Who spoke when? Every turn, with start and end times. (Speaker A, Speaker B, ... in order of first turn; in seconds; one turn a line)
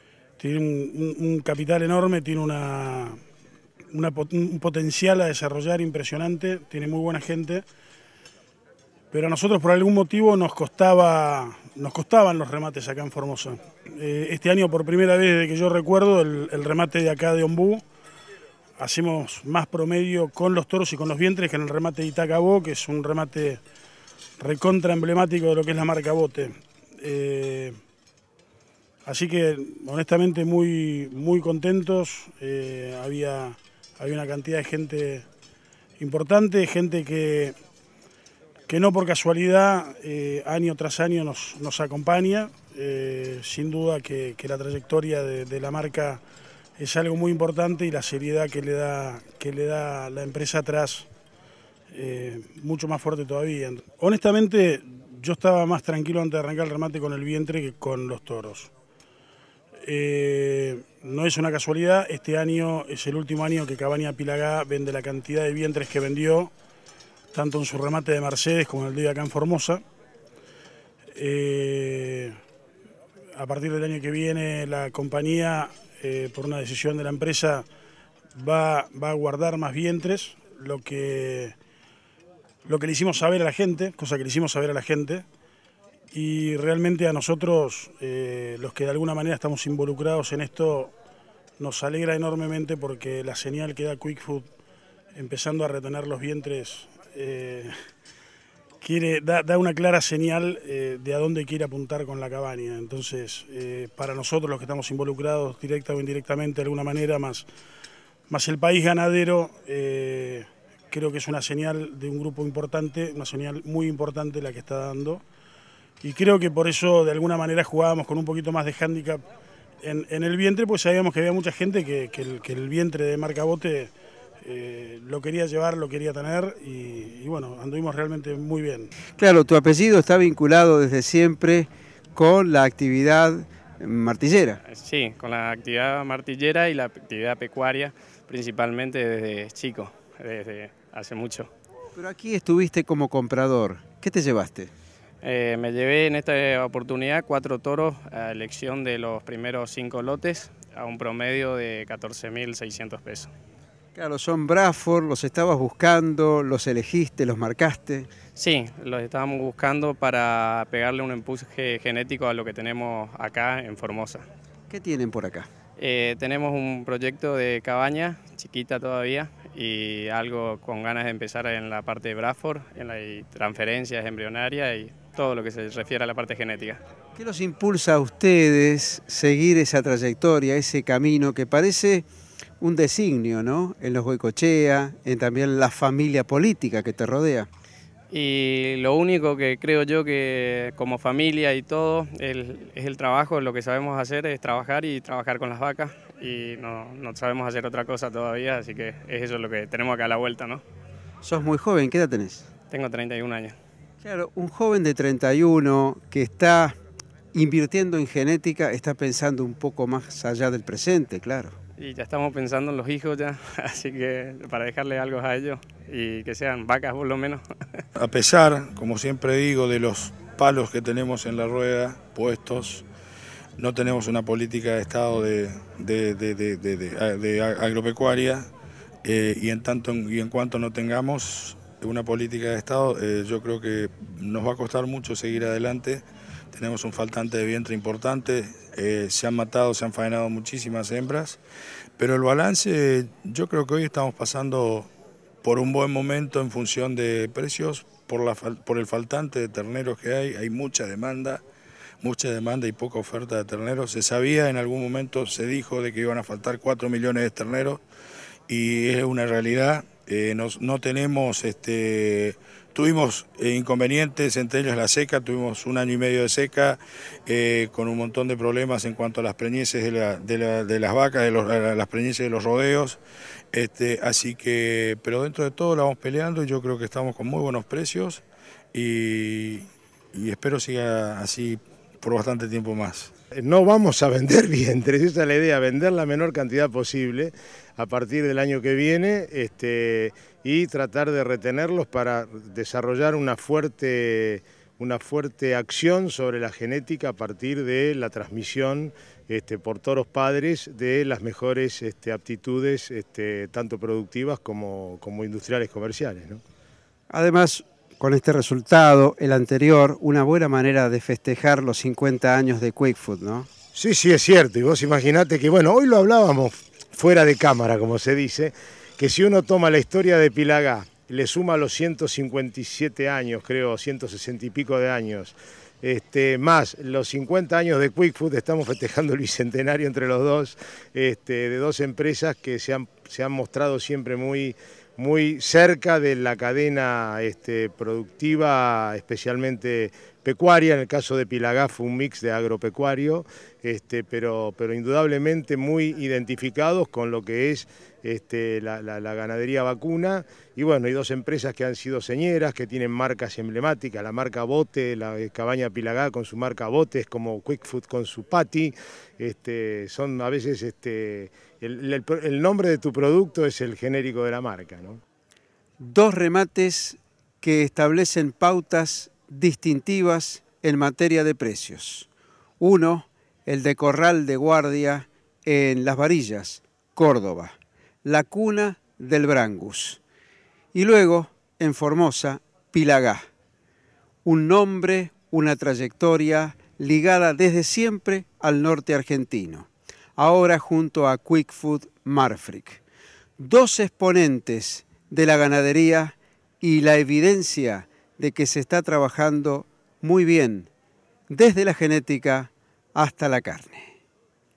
Speaker A: 0.4-3.2
Speaker A: 3.9-7.7
Speaker A: 9.1-17.8
Speaker A: 18.8-23.6
Speaker A: 24.4-27.8
Speaker A: 29.1-35.3
Speaker A: 36.0-37.5
Speaker A: 38.7-46.2
Speaker A: 46.8-51.1
Speaker A: 51.9-58.7
Speaker A: 59.8-66.5
Speaker A: 67.3-69.8
Speaker A: 71.1-72.4
Speaker A: 73.3-77.7
Speaker A: 78.3-81.5
Speaker A: 82.7-85.2
Speaker A: 86.1-90.9
Speaker A: 91.6-94.5
Speaker A: 95.1-97.7
Speaker A: 98.8-107.5
Speaker A: 108.3-115.2
Speaker A: 116.0-119.2
Speaker A: 119.8-128.9
Speaker B: 129.2-134.6
Speaker C: 134.7-141.5
Speaker B: 141.9-144.7
Speaker C: 145.2-153.3
Speaker B: 153.9-158.1
Speaker C: 158.3-164.2
Speaker B: 164.7-165.5
Speaker C: 165.8-176.8
Speaker B: 177.2-182.1
Speaker B: 182.6-187.5
Speaker C: 188.1-200.6
Speaker B: 201.2-202.5
Speaker C: 202.7-203.6
Speaker B: 204.0-206.8
Speaker B: 207.3-211.5
Speaker C: 211.8-217.4
Speaker D: 218.0-222.8
Speaker D: 223.6-228.5
Speaker D: 229.0-241.4
Speaker D: 242.0-244.9
Speaker D: 245.4-251.4
Speaker D: 252.0-257.8
Speaker D: 258.5-273.0
Speaker D: 273.5-283.1
Speaker E: 283.4-306.4
Speaker B: 307.1-313.5
Speaker E: 313.8-365.0
Speaker B: 365.8-372.1
Speaker B: 372.6-380.0
Speaker B: 380.7-383.3
Speaker B: 384.2-392.8
Speaker B: 393.4-400.7
Speaker B: 401.3-403.9